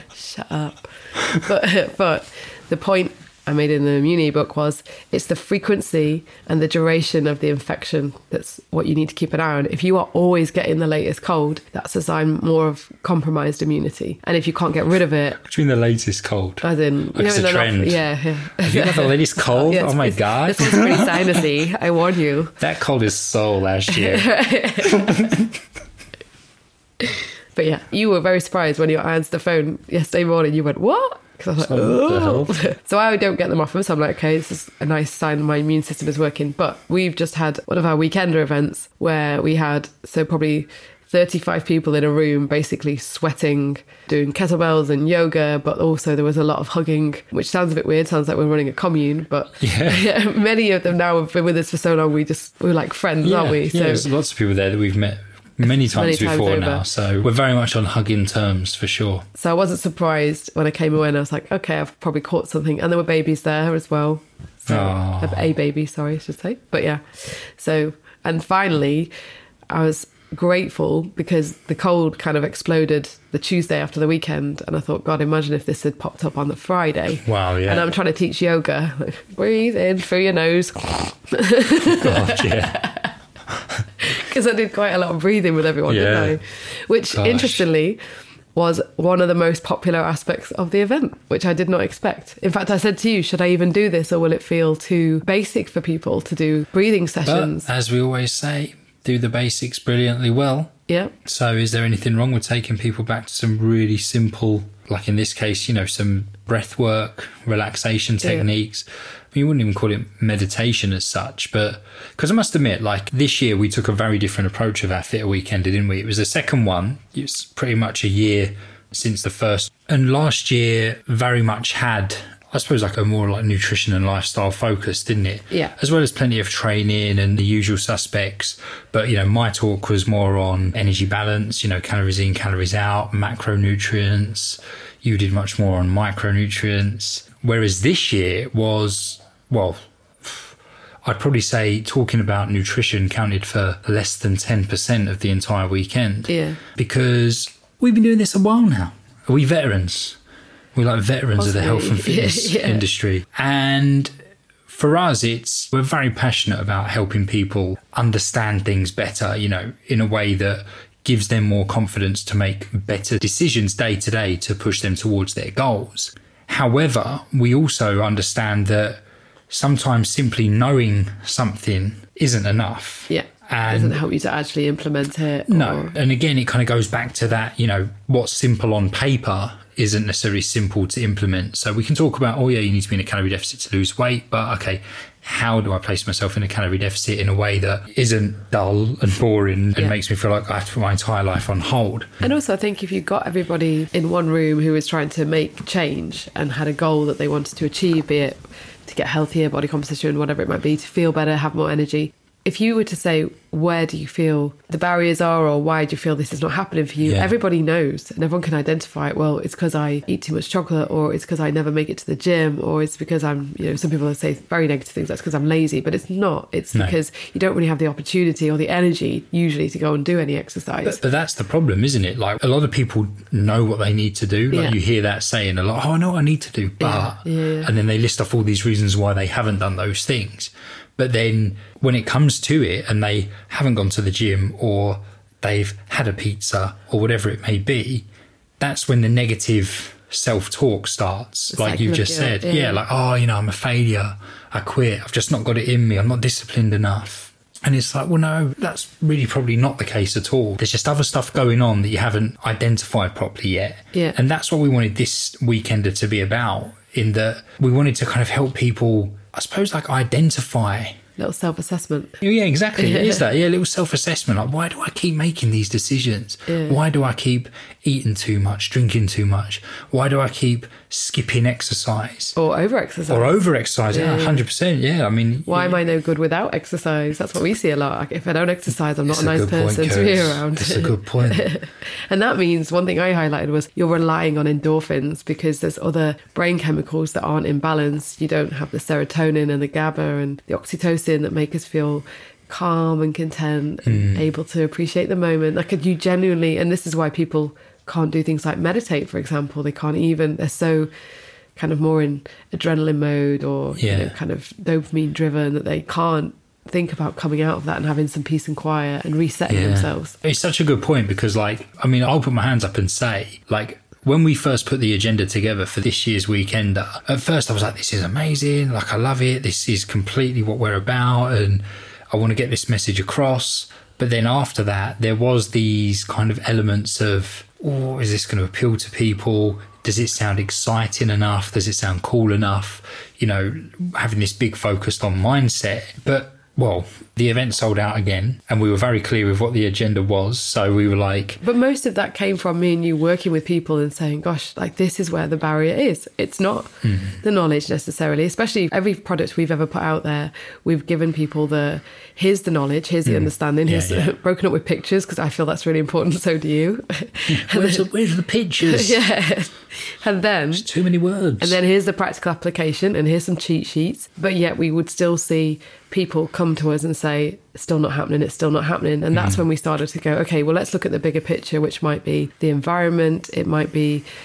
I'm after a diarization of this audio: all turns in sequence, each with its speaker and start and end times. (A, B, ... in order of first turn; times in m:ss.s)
0:00.1-0:15.4 A
0:15.4-0:16.6 B
0:16.6-0:22.6 A
0:17.2-0:18.0 B
0:18.6-0:21.4 B
0:22.6-0:24.3 B
0:23.9-0:25.3 A
0:24.8-0:25.5 B
0:27.0-0:54.1 A
0:31.6-0:32.6 B
0:49.6-0:50.1 B
0:53.2-0:59.2 B
0:55.9-0:56.8 A
0:59.4-1:09.1 A
1:04.7-1:05.5 B
1:09.7-1:23.1 A
1:17.2-1:17.9 B
1:21.9-1:22.8 B
1:23.5-1:23.8 B
1:24.0-1:28.0 A
1:25.9-1:26.4 B
1:27.1-1:27.6 B
1:28.6-1:37.7 A
1:37.2-2:30.2 B
1:40.9-1:41.1 A
1:48.2-1:48.5 A
2:26.3-2:26.6 A
2:30.8-2:34.1 B
2:31.4-2:32.8 A
2:34.7-2:49.0 B
2:49.5-2:54.0 B
2:53.1-2:55.9 A
2:55.5-3:12.2 B
3:12.2-3:41.0 A
3:27.0-3:27.3 B
3:40.8-3:58.1 B
3:46.8-3:47.7 A
3:58.6-4:21.0 B
4:01.5-4:02.8 A
4:21.2-4:22.2 A
4:22.2-4:32.4 B
4:22.8-4:23.2 A
4:26.5-4:26.8 A
4:32.4-4:33.3 A
4:33.1-4:35.8 B
4:33.9-4:34.4 A
4:35.5-5:00.9 A
4:39.1-4:41.5 B
4:53.9-4:54.3 B
5:01.6-5:10.2 A
5:03.8-5:04.1 B
5:09.5-5:41.4 B
5:41.4-5:57.9 A
5:46.8-5:47.2 B
5:53.1-5:54.1 B
5:57.3-5:59.0 B
5:58.6-6:00.7 A
6:00.5-6:01.6 B
6:01.4-6:14.0 A
6:09.1-6:09.4 B